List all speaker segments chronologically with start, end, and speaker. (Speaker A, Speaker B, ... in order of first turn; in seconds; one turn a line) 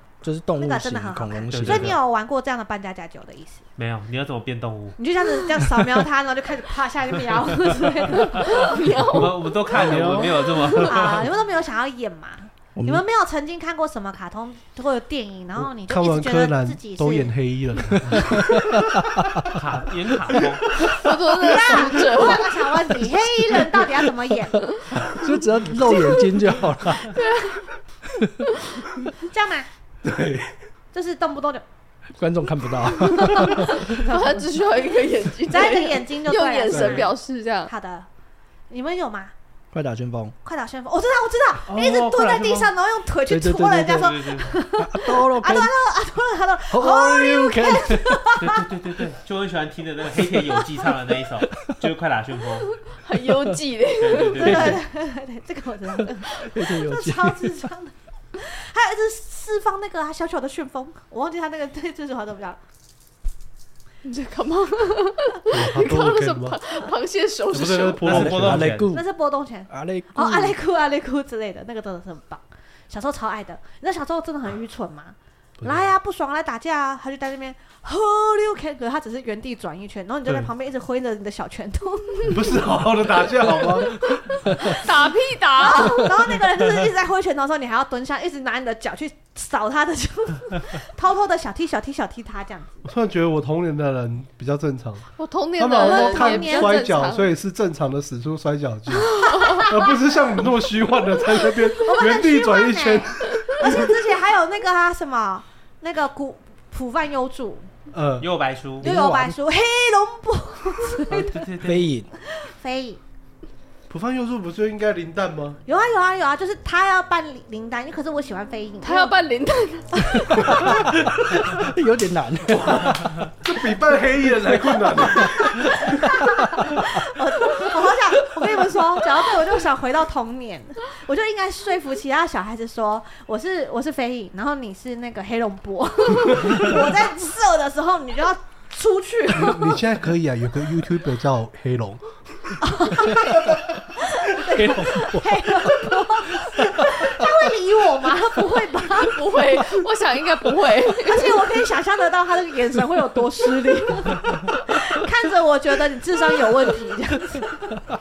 Speaker A: 0.2-1.9
Speaker B: 0.6-3.6
Speaker C: 1.5-2.0
Speaker C: 3.8-5.0
Speaker B: 5.0-8.8
Speaker C: 8.1-11.3
Speaker D: 8.3-9.7
Speaker E: 9.7-10.8
Speaker D: 10.3-10.9
Speaker B: 10.8-17.3
Speaker A: 12.7-13.0
Speaker E: 15.8-18.7
Speaker A: 18.1-19.0
Speaker C: 19.5-20.7
Speaker D: 20.9-22.7
Speaker B: 21.4-24.7
Speaker D: 24.6-24.9
Speaker A: 24.9-27.2
Speaker D: 27.1-27.7
Speaker D: 28.5-29.0
Speaker B: 29.2-29.7
Speaker A: 30.0-30.5
Speaker B: 30.9-31.6
Speaker A: 32.2-33.8
Speaker B: 33.0-38.1
Speaker D: 33.5-37.7
Speaker A: 36.7-37.1
Speaker B: 38.7-39.3
Speaker A: 39.7-40.3
Speaker B: 40.4-48.6
Speaker C: 41.7-42.7
Speaker A: 43.3-44.2
Speaker C: 44.0-44.5
Speaker A: 44.8-45.8
Speaker A: 46.7-48.3
Speaker C: 48.4-52.8
Speaker D: 52.8-54.6
Speaker C: 54.0-54.8
Speaker A: 54.4-54.8
Speaker B: 54.4-62.6
Speaker A: 56.0-57.7
Speaker D: 64.0-68.2
Speaker E: 65.5-66.6
Speaker E: 67.5-68.8
Speaker C: 68.0-68.9
Speaker A: 68.1-69.1
Speaker B: 68.9-82.4
Speaker A: 69.7-70.6
Speaker E: 75.6-75.9
Speaker E: 82.2-84.0
Speaker D: 84.0-86.1
Speaker B: 85.6-92.8
Speaker E: 92.8-103.9
Speaker D: 95.2-97.3
Speaker B: 95.7-96.9
Speaker D: 99.1-99.9
Speaker B: 99.2-99.7
Speaker B: 101.8-107.7
Speaker E: 107.9-108.3
Speaker C: 108.2-108.9
Speaker A: 108.8-109.4
Speaker B: 108.8-111.4
Speaker C: 111.1-111.9
Speaker A: 111.6-112.1
Speaker B: 112.2-113.0
Speaker E: 113.9-115.6
Speaker B: 115.7-119.1
Speaker D: 118.8-120.5
Speaker A: 120.4-123.3
Speaker E: 123.3-126.1
Speaker A: 124.9-125.9
Speaker B: 125.8-139.8
Speaker E: 139.3-142.0
Speaker B: 142.6-149.3
Speaker A: 144.5-145.8
Speaker A: 146.6-147.1
Speaker D: 149.0-151.5
Speaker B: 150.9-157.8